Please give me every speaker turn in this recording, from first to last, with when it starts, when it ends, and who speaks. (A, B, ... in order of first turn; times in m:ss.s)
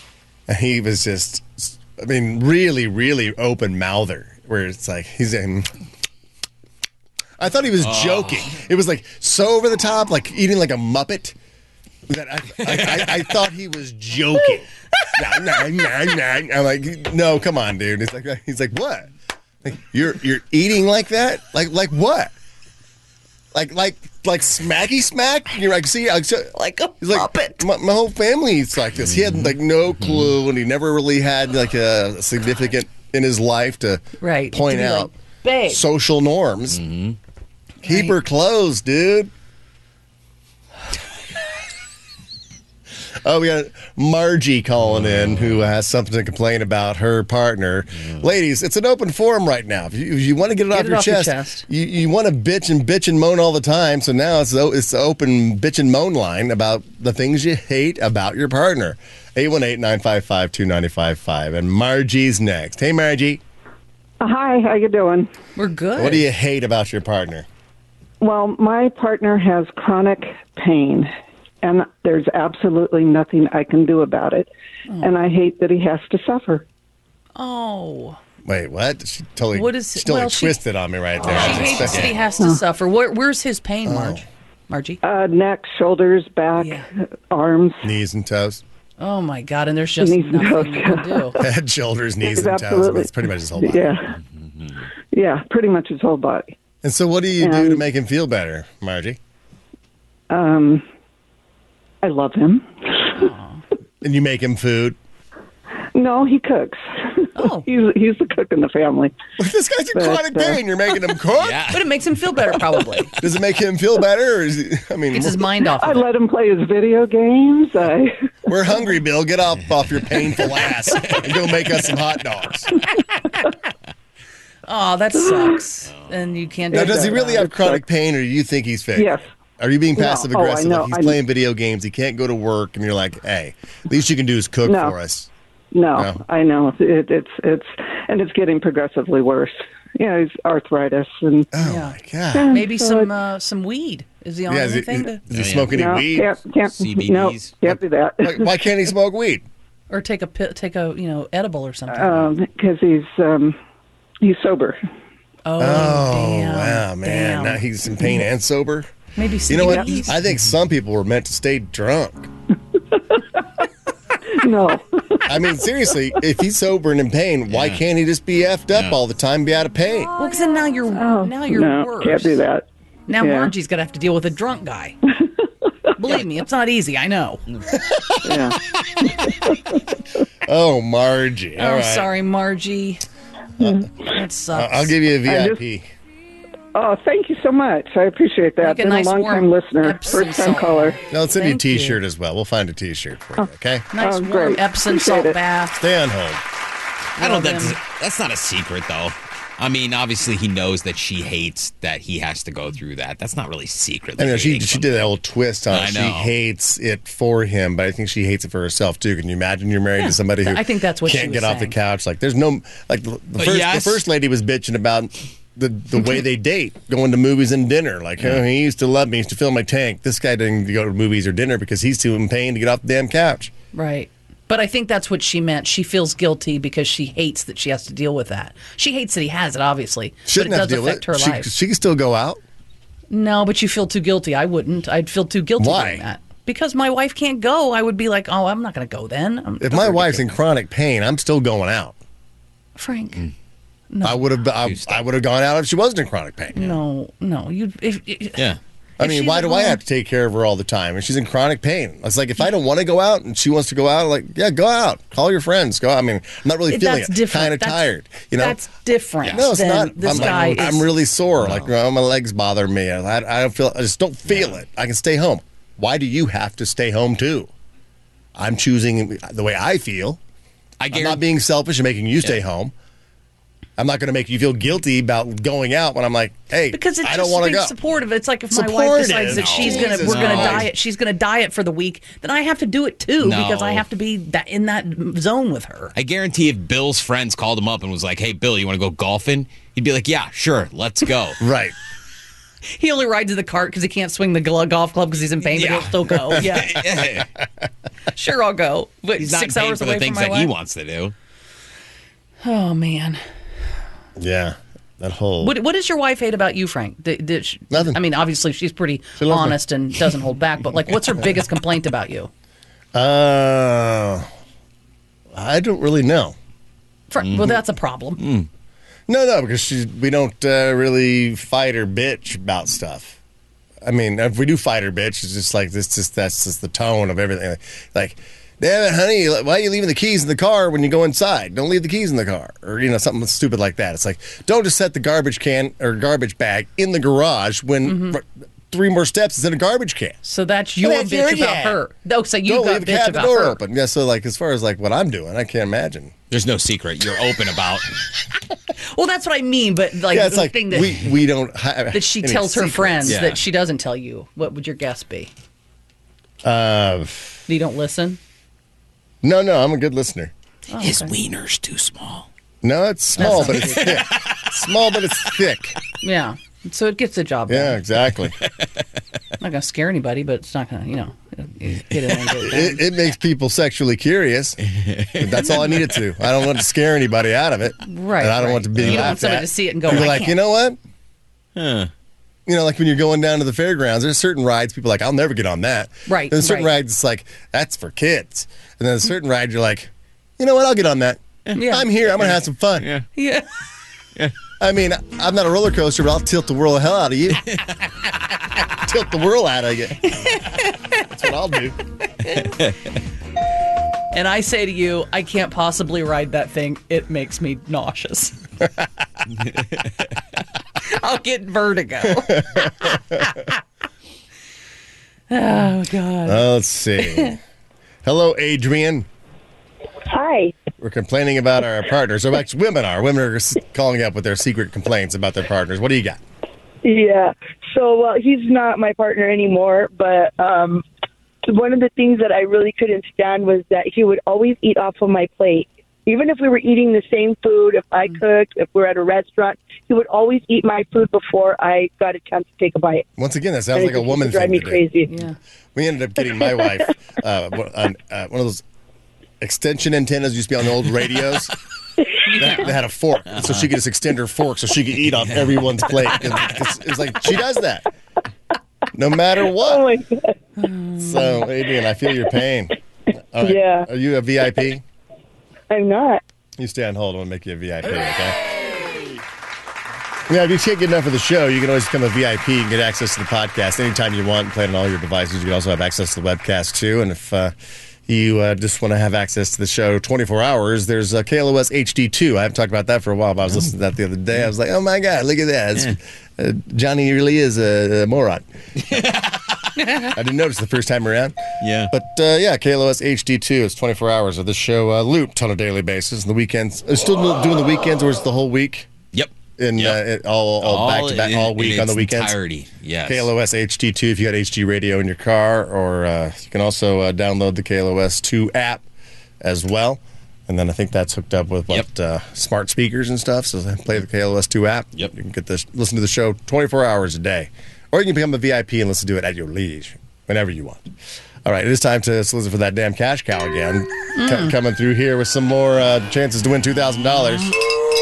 0:00.5-0:05.7 A
0:07.4-0:11.4 A
0:07.8-0:08.5 B
0:12.1-0:19.1 A
0:12.7-0:13.1 B
0:19.6-0:22.3 A
0:23.5-0:35.1 A
0:26.5-0:27.6 C
0:34.2-0:35.8 C
0:35.7-0:36.8 A
0:36.7-0:37.2 B
0:37.8-0:38.2 C
0:37.8-0:39.3 A
0:43.2-1:03.4 A
0:50.7-0:51.7 C
1:04.2-1:05.3 D
1:05.6-1:06.2 C
1:06.0-1:07.5 A
1:08.2-1:11.1 D
1:11.6-1:14.5 D
1:14.9-1:15.1 C
1:15.0-1:16.6 D
1:17.4-1:18.2 C
1:18.5-1:22.2 A
1:19.5-1:20.6 C
1:21.2-1:25.0 C
1:23.8-1:24.3 A
1:25.0-1:27.9 D
1:26.6-1:26.9 C
1:27.8-1:28.6 A
1:29.0-1:31.4 C
1:30.0-1:31.4 D
1:31.4-1:34.0 A
1:32.3-1:34.2 D
1:35.1-1:36.5 D
1:36.8-1:39.2 A
1:37.4-1:37.8 D
1:40.3-1:40.8 D
1:42.0-1:43.2 D
1:43.2-1:43.6 C
1:44.0-1:45.0 A
1:46.0-1:49.1 D
1:47.4-1:47.7 C
1:49.4-1:51.6 A
1:49.9-1:50.6 D
1:51.4-1:51.8 B
1:51.7-1:53.1 C
1:53.2-1:55.5 A
1:55.1-1:56.0 C
1:55.7-1:58.3 D
1:58.5-2:02.7 A
2:04.7-2:07.4 C
2:06.7-2:07.8 D
2:06.7-2:15.3 A
2:09.0-2:09.2 D
2:10.0-2:11.2 D
2:14.6-2:15.0 D
2:15.7-2:21.5 D
2:16.0-2:16.2 A
2:21.5-2:22.6 A
2:21.6-2:22.0 C
2:22.3-2:23.1 D
2:22.5-2:25.2 C
2:24.5-2:26.4 A
2:25.3-2:25.8 B
2:25.7-2:28.5 D
2:26.6-2:27.8 B
2:28.2-2:29.4 A
2:29.9-2:32.3 C
2:31.9-2:33.6 D
2:34.2-2:34.8 D
2:35.5-2:37.6 C
2:35.6-2:38.9 A
2:39.2-2:40.2 C
2:39.5-2:42.3 A
2:39.6-2:39.9 D
2:44.3-2:45.5 D
2:45.3-2:50.1 A
2:47.5-2:47.8 B
2:50.2-2:52.4 C
2:51.0-2:52.7 D
2:53.1-2:55.0 C
2:53.2-2:53.5 D
2:56.0-2:57.4 C
2:57.8-2:58.4 A
2:58.2-2:58.6 D
3:00.4-3:02.1 A
3:01.6-3:03.0 C
3:03.6-3:03.8 A
3:04.0-3:05.0 C
3:04.5-3:05.9 A
3:05.3-3:05.6 D
3:06.7-3:11.0 D
3:08.6-3:12.0 C
3:11.1-3:13.9 A
3:13.4-3:15.4 D
3:13.9-3:15.8 C
3:15.8-3:16.4 A
3:17.2-3:17.8 C
3:17.2-3:25.1 B
3:24.2-3:43.5 A
3:25.7-3:26.3 B
3:30.4-3:31.8 C
3:33.4-3:34.0 B
3:43.7-3:51.5 C
3:50.3-3:52.4 A
3:53.1-4:00.2 C
3:55.6-3:56.0 A
3:59.6-4:02.0 A
4:02.8-4:03.2 C
4:03.9-4:04.2 C
4:04.0-4:06.7 A
4:04.6-4:05.1 B
4:06.5-4:08.4 C
4:09.0-4:18.6 A
4:09.0-4:09.8 C
4:16.7-4:20.9 C
4:19.3-4:27.5 A
4:21.4-4:21.7 B
4:24.3-4:24.6 B
4:28.4-4:30.2 A
4:30.8-4:31.2 B
4:30.9-4:32.7 A
4:33.8-4:37.8 A
4:36.7-4:45.9 C
4:38.5-4:40.7 A
4:39.3-4:40.7 B
4:43.2-4:43.9 B
4:45.9-4:51.4 B
4:51.4-4:51.8 A
4:52.8-4:56.8 C
4:55.6-4:57.3 B
4:58.1-5:00.5 C
4:59.2-5:01.1 B
5:02.4-5:03.2 C
5:04.2-5:05.6 A
5:05.4-5:12.3 C
5:07.7-5:08.0 A
5:09.2-5:09.6 A
5:13.0-5:14.3 A
5:15.3-5:16.4 A
5:17.1-5:18.2 C
5:17.2-5:17.5 B
5:18.2-5:18.5 B
5:19.1-5:23.2 A
5:23.8-5:40.2 A
5:37.8-5:38.2 C
5:40.2-5:43.6 C
5:40.8-5:41.8 A
5:42.4-5:46.1 A
5:46.3-5:47.9 B
5:48.8-5:51.0 C
5:50.1-5:53.2 A
5:51.9-5:55.3 C
5:53.1-5:53.4 B
5:56.4-5:57.4 A
5:57.5-5:58.2 C
5:59.2-6:00.3 A
6:00.7-6:01.2 C
6:00.8-6:02.3 B
6:02.6-6:05.8 A
6:03.2-6:04.0 C
6:03.2-6:04.4 B
6:06.0-6:07.8 C
6:07.5-6:08.4 A
6:09.4-6:12.8 C
6:12.4-6:14.6 A
6:14.9-6:15.8 B
6:15.1-6:20.8 A
6:17.8-6:20.4 C
6:18.8-6:19.2 B
6:21.6-6:21.9 B
6:22.5-6:32.9 A
6:26.1-6:26.7 C
6:31.6-6:31.9 C
6:32.1-6:33.0 B
6:33.1-6:33.5 C
6:34.6-6:37.4 A
6:38.8-6:40.1 A
6:40.2-6:40.6 C
6:41.1-6:41.8 A
6:44.1-6:48.4 C
6:50.8-6:53.5 C
6:55.3-6:56.5 C
6:56.3-6:57.4 A
6:57.0-6:57.4 C
6:58.0-6:59.1 A
7:00.1-7:00.5 E
7:00.8-7:06.2 A
7:06.8-7:10.8 E
7:11.5-7:23.0 E
7:23.2-7:24.9 A
7:23.8-7:25.1 E
7:25.0-7:25.4 C
7:25.8-7:28.6 A
7:29.4-7:31.5 A
7:32.3-7:32.7 C
7:32.3-7:37.9 A
7:35.2-7:35.5 B
7:38.9-7:39.9 A
7:39.7-7:40.3 E
7:40.6-7:41.5 C
7:41.0-7:42.8 A
7:43.3-7:44.8 A
7:43.4-7:43.9 E
7:45.7-7:46.2 E
7:46.6-7:48.4 A
7:50.3-7:57.5 A
7:58.1-8:08.4 A
8:08.9-8:09.5 B
8:10.0-8:11.4 A
8:11.6-8:11.9 B
8:11.9-8:18.9 A
8:19.1-8:20.0 B
8:19.6-8:22.4 A
8:20.6-8:23.3 B
8:23.0-8:28.8 A
8:29.4-8:40.8 A
8:41.4-8:47.6 A
8:44.2-8:44.6 C